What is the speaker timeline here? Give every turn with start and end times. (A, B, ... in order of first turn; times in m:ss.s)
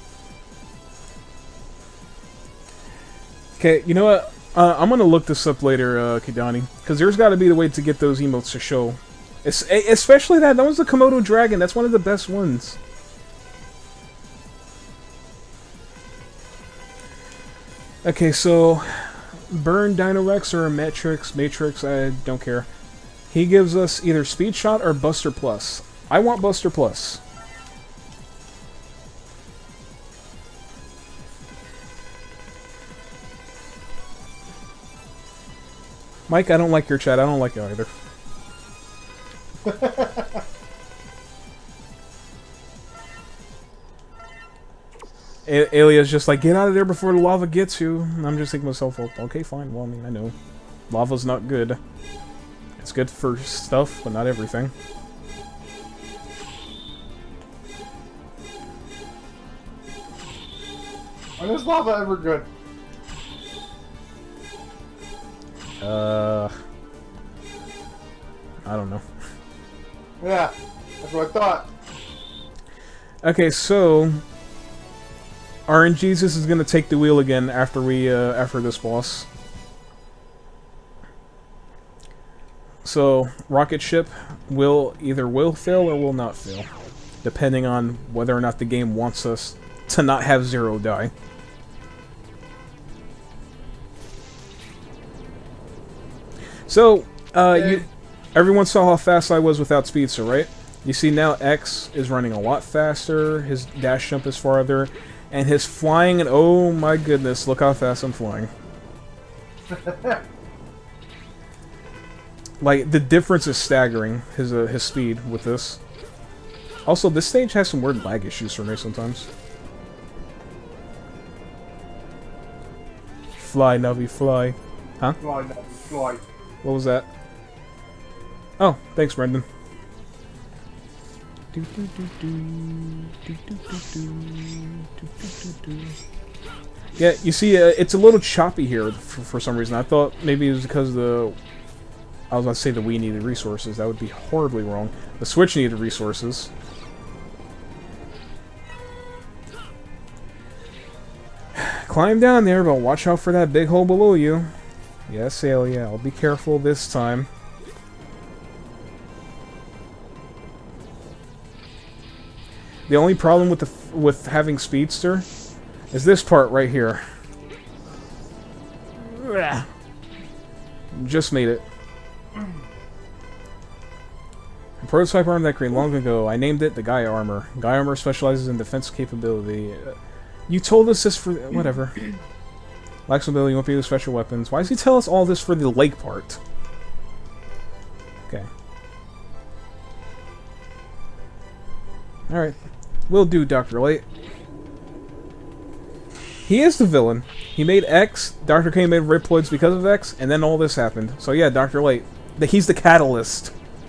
0:03.6-0:12.8 A
0:18.0-0:22.7 A
0:23.3-0:27.2 A
0:36.3-0:37.9 A
0:39.6-0:40.4 B
0:45.5-0:50.3 A
0:50.9-0:51.8 A
0:52.8-0:54.7 A
1:01.4-1:02.5 B
1:05.8-1:06.6 A
1:08.6-1:09.0 A
1:10.2-1:11.7 B
1:13.2-1:14.2 A
1:15.7-1:19.3 A
1:22.8-1:26.7 A
1:27.2-1:31.1 A
1:36.7-1:48.5 A
1:37.5-1:37.8 B
1:49.7-1:50.2 B
1:52.6-1:55.8 A
1:56.9-1:59.3 A
2:03.4-2:05.2 A
2:05.2-2:06.2 B
2:06.6-2:07.1 A
2:08.6-2:09.5 A
2:11.5-2:16.0 A
2:17.0-2:21.4 A
2:22.3-2:26.5 A
2:31.6-2:34.5 A
2:35.1-2:37.3 A
2:42.9-2:45.3 A
2:45.9-2:47.0 A
2:49.0-2:49.7 A
2:50.9-2:51.6 A
2:54.8-3:00.0 A
3:00.5-3:02.0 A
3:03.1-3:06.4 A
3:12.3-3:12.6 A
3:13.1-3:14.0 A
3:16.5-3:23.5 A